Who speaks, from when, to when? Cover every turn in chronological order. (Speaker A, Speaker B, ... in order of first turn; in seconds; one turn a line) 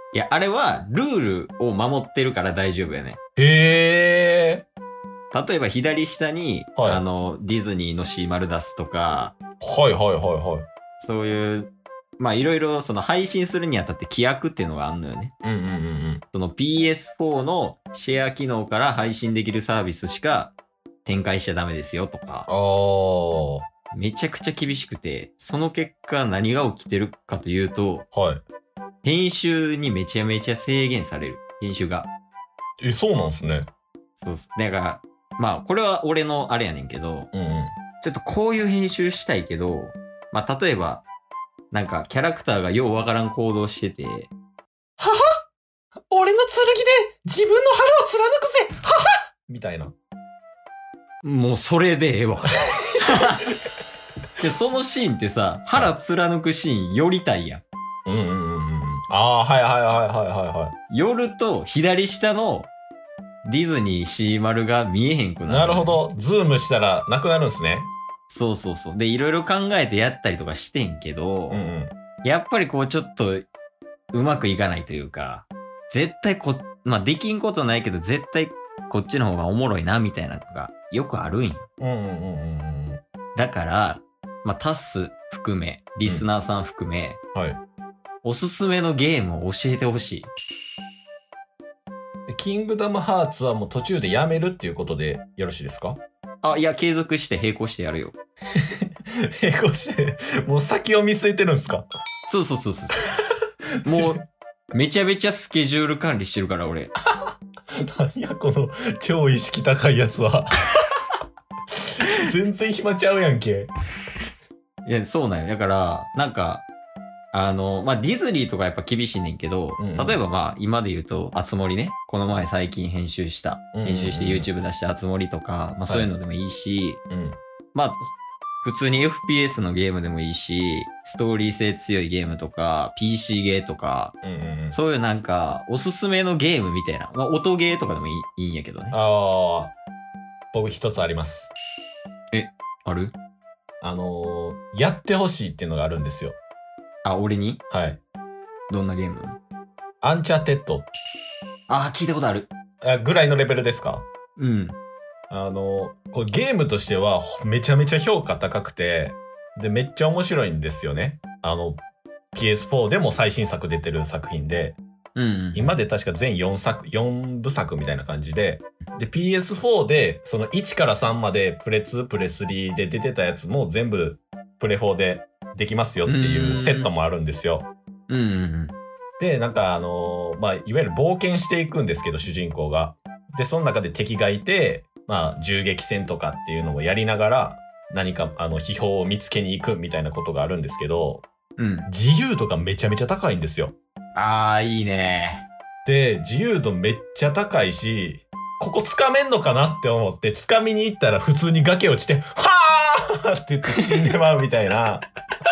Speaker A: 0.1-3.2
Speaker B: 3.4-4.7
Speaker A: 5.3-9.3
Speaker B: 6.8-7.0
Speaker B: 9.6-10.7
Speaker A: 11.0-15.3
Speaker B: 15.4-16.2
Speaker A: 16.3-22.5
Speaker B: 22.5-23.6
Speaker A: 23.9-28.1
Speaker B: 28.1-28.4
Speaker A: 29.0-32.1
Speaker B: 32.8-33.7
Speaker A: 34.2-37.3
Speaker B: 37.3-37.8
Speaker A: 38.0-41.0
Speaker A: 41.7-44.3
Speaker B: 45.0-45.4
Speaker B: 46.1-49.9
Speaker A: 51.2-53.5
Speaker B: 52.6-53.0
Speaker A: 54.4-57.6
Speaker B: 58.0-60.8
Speaker A: 60.9-62.7
Speaker A: 63.4-66.0
Speaker B: 65.5-67.9
Speaker A: 68.3-71.6
Speaker B: 71.5-71.9
Speaker A: 72.2-73.5
Speaker A: 74.1-81.7
Speaker B: 81.8-83.0
Speaker A: 83.3-87.2
Speaker B: 87.3-87.6
Speaker A: 88.2-90.3
Speaker B: 92.3-96.0
Speaker A: 96.4-98.2
Speaker B: 98.6-101.8
Speaker A: 102.3-103.0
Speaker B: 103.8-104.2
Speaker A: 103.8-106.9
Speaker B: 107.2-110.9
Speaker B: 112.0-113.7
Speaker A: 114.8-116.7
Speaker A: 117.3-127.0
Speaker B: 119.8-120.2
Speaker B: 123.7-124.5
Speaker B: 127.1-127.4
Speaker A: 127.7-134.2
Speaker B: 134.2-134.8
Speaker A: 134.7-138.9
Speaker B: 138.9-139.7
Speaker B: 140.5-141.5
Speaker A: 142.3-143.1
Speaker B: 143.8-146.4
Speaker A: 147.0-147.6
Speaker B: 147.7-148.0
Speaker A: 148.7-149.4
Speaker B: 150.0-150.9
Speaker A: 151.7-152.5
Speaker B: 152.8-154.1
Speaker A: 154.3-154.8
Speaker B: 155.3-161.8
Speaker B: 162.3-164.8
Speaker A: 165.2-165.7
Speaker B: 165.5-177.7
Speaker A: 176.0-176.9
Speaker A: 178.1-178.7
Speaker B: 179.2-191.2
Speaker A: 191.6-191.9
Speaker B: 191.9-193.7
Speaker A: 194.1-195.4
Speaker B: 195.8-205.0